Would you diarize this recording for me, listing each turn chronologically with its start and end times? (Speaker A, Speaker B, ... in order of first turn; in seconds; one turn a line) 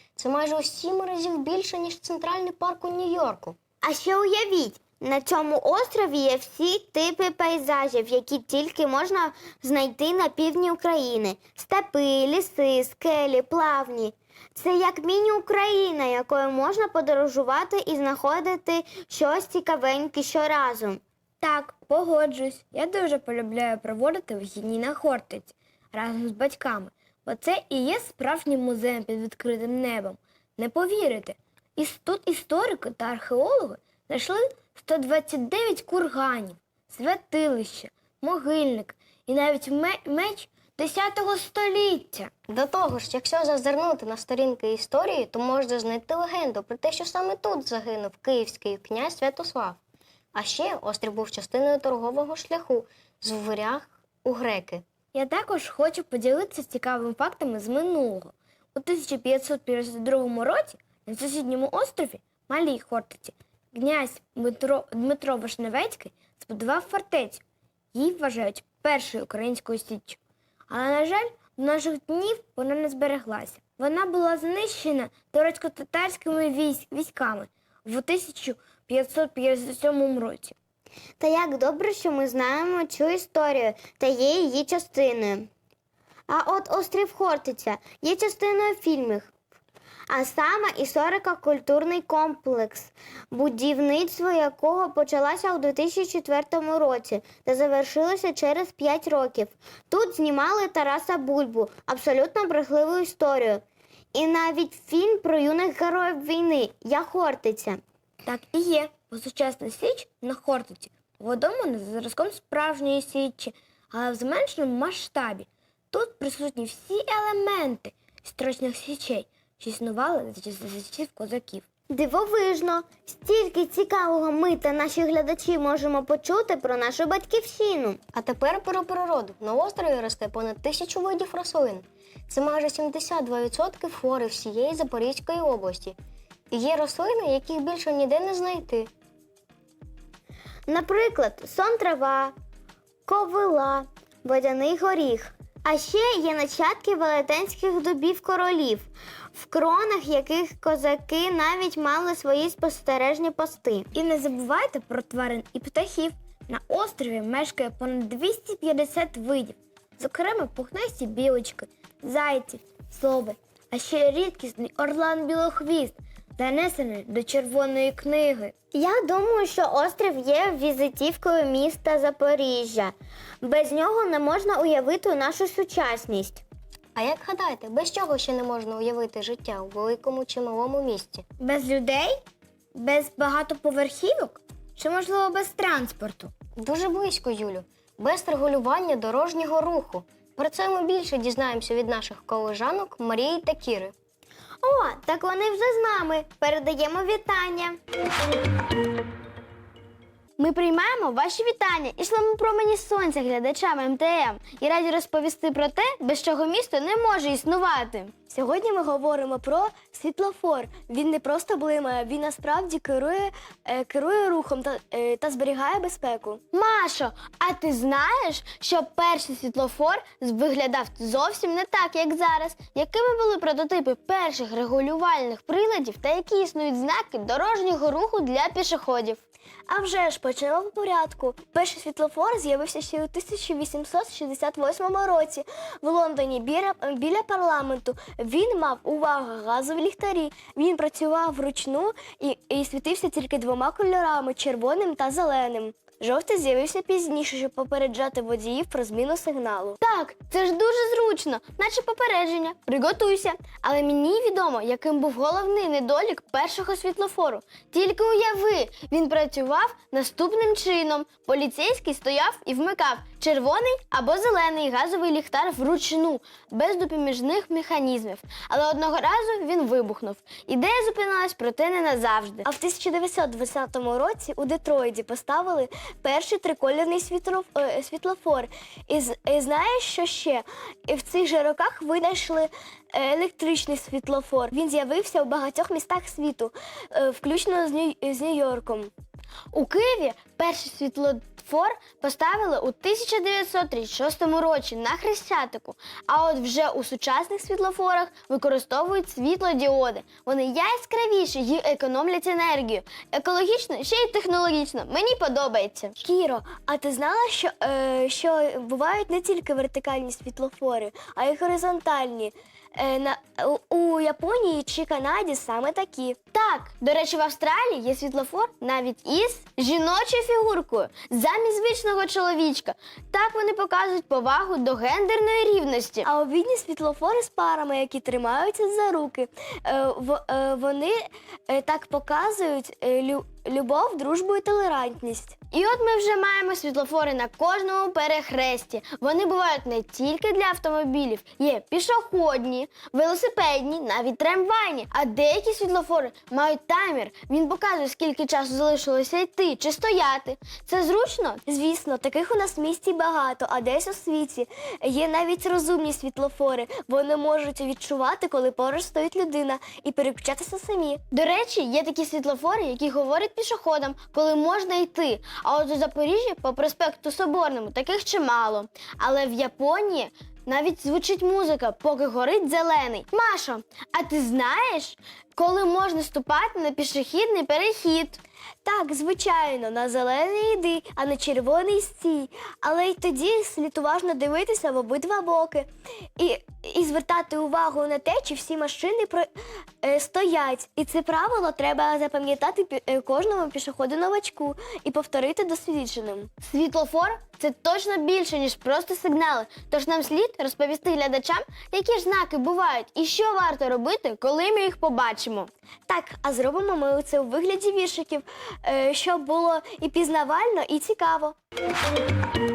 Speaker A: 0.1-3.6
Speaker B: 3.8-21.0
Speaker C: 21.4-42.3
Speaker A: 42.5-49.8
Speaker A: 50.3-54.8
Speaker C: 55.1-67.4
Speaker C: 67.9-70.2
Speaker C: 70.7-80.5
Speaker B: 81.2-85.5
Speaker B: 86.3-89.3
Speaker B: 90.1-103.6
Speaker B: 104.1-107.8
Speaker C: 108.2-121.6
Speaker B: 121.9-128.0
Speaker A: 128.1-136.0
Speaker A: 136.5-138.9
Speaker B: 140.7-142.3
Speaker B: 143.1-153.9
Speaker C: 153.9-168.5
Speaker B: 168.7-176.4
Speaker A: 176.9-181.2
Speaker C: 181.4-182.2
Speaker C: 182.7-186.3
Speaker A: 186.6-193.9
Speaker B: 194.6-197.8
Speaker D: 200.4-208.2
Speaker E: 208.2-216.5
Speaker D: 216.5-229.2
Speaker E: 229.7-249.8
Speaker D: 249.8-272.4
Speaker E: 272.4-288.9
Speaker D: 289.5-305.9
Speaker E: 306.0-316.2
Speaker D: 316.3-326.1
Speaker E: 326.0-335.4
Speaker D: 335.5-351.4
Speaker E: 351.4-361.0
Speaker D: 361.1-378.2
Speaker E: 378.6-385.7
Speaker E: 386.2-389.3
Speaker E: 389.8-396.3
Speaker D: 396.4-405.5
Speaker E: 405.9-411.3